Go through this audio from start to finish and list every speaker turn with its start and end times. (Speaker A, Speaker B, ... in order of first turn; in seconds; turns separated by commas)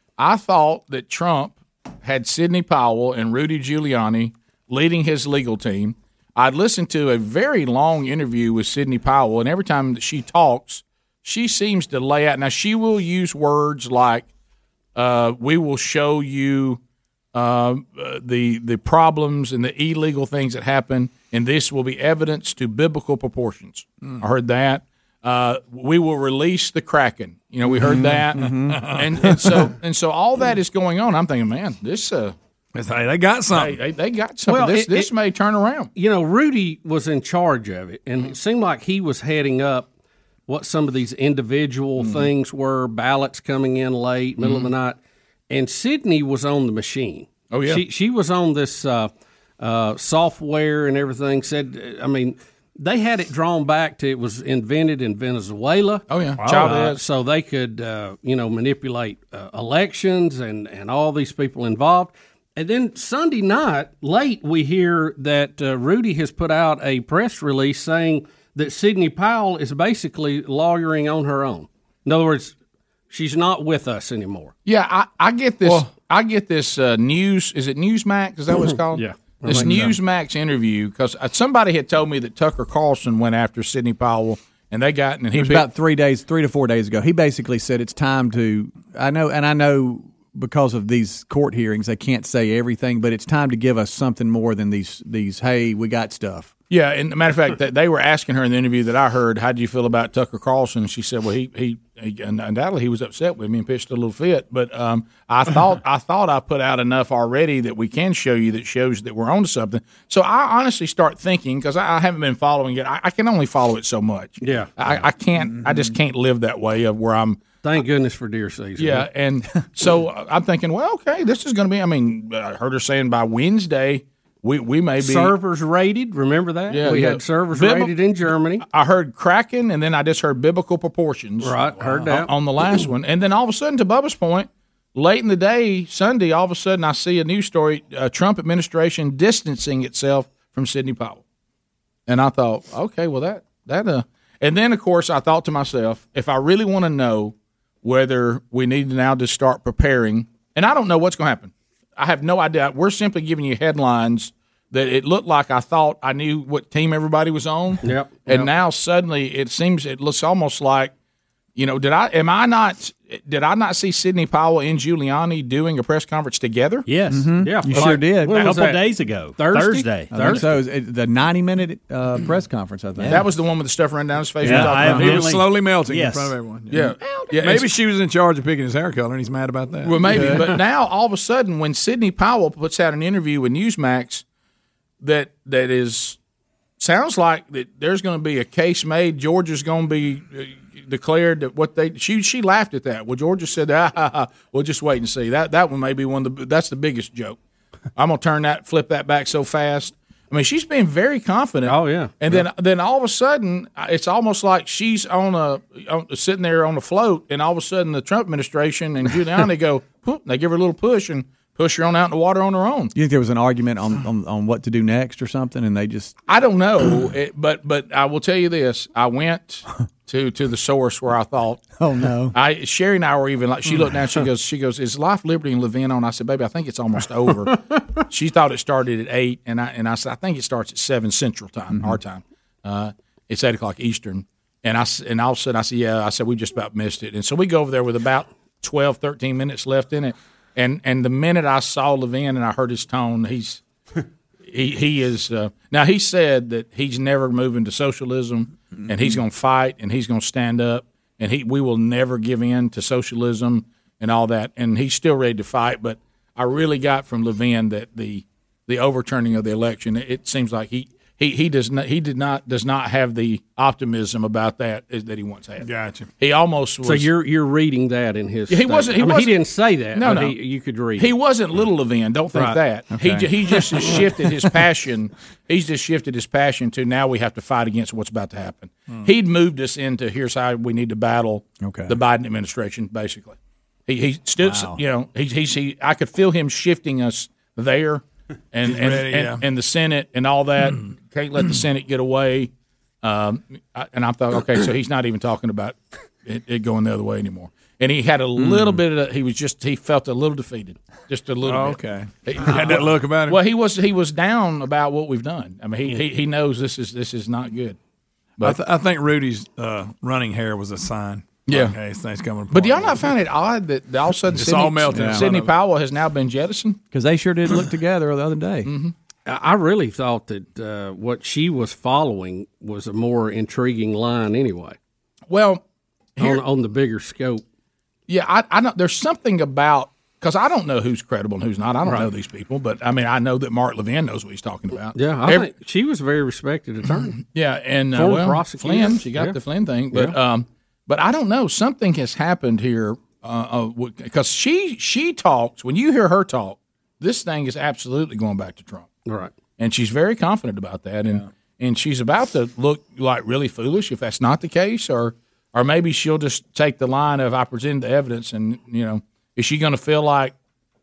Speaker A: 0.2-14.2, Speaker A: 14.9-16.8, Speaker A: 17.3-32.3, Speaker B: 27.7-28.8, Speaker C: 27.9-29.7, Speaker C: 32.7-33.8, Speaker A: 33.5-35.9, Speaker D: 34.5-35.1, Speaker D: 35.9-39.9, Speaker D: 40.5-45.0, Speaker A: 42.0-42.3, Speaker A: 44.4-44.7, Speaker D: 45.5-72.5, Speaker A: 47.5-47.8, Speaker A: 56.1-57.0, Speaker D: 73.1-74.5, Speaker A: 74.7-85.7, Speaker D: 78.7-80.0, Speaker B: 85.3-96.5, Speaker A: 96.7-117.4, Speaker D: 114.4-114.7, Speaker D: 117.6-119.1, Speaker A: 118.8-125.3, Speaker D: 125.0-128.6, Speaker A: 126.7-127.9, Speaker A: 128.6-141.2, Speaker D: 131.4-132.3, Speaker A: 142.1-160.9, Speaker D: 157.8-158.5, Speaker A: 161.6-166.9, Speaker E: 166.8-170.4, Speaker B: 167.1-168.4, Speaker D: 167.4-168.8, Speaker D: 169.3-170.4, Speaker B: 170.1-173.2, Speaker E: 173.0-173.2, Speaker A: 173.1-175.2, Speaker E: 174.4-176.3, Speaker B: 174.4-175.1, Speaker C: 174.5-180.6, Speaker A: 176.7-177.7, Speaker A: 179.8-184.2, Speaker B: 180.1-180.3, Speaker A: 185.0-186.2, Speaker A: 186.8-197.4, Speaker A: 197.9-212.9, Speaker D: 201.7-202.1, Speaker B: 212.9-216.1, Speaker A: 216.3-221.6, Speaker B: 221.8-222.3, Speaker A: 222.3-243.6, Speaker B: 231.7-232.0, Speaker A: 244.4-265.7, Speaker C: 265.6-266.1, Speaker A: 266.2-267.1, Speaker D: 266.8-271.1, Speaker A: 268.5-269.3, Speaker A: 269.9-270.4, Speaker A: 271.0-283.4, Speaker B: 272.9-273.9, Speaker B: 281.6-281.9, Speaker A: 283.9-292.5, Speaker B: 284.4-284.8, Speaker C: 288.6-289.4, Speaker A: 293.0-307.8, Speaker C: 301.4-303.4, Speaker C: 308.4-313.1, Speaker A: 311.5-311.8, Speaker A: 312.5-316.8, Speaker C: 314.3-315.5, Speaker B: 314.9-315.2, Speaker B: 316.9-318.7, Speaker A: 318.6-318.9, Speaker D: 319.2-324.8, Speaker A: 325.3-325.6, Speaker A: 326.1-326.4, Speaker D: 326.2-327.4, Speaker A: 328.1-335.5, Speaker D: 331.8-332.1, Speaker D: 334.9-337.2, Speaker A: 337.2-348.9, Speaker D: 337.9-339.4, Speaker D: 349.1-349.3, Speaker A: 349.6-360.3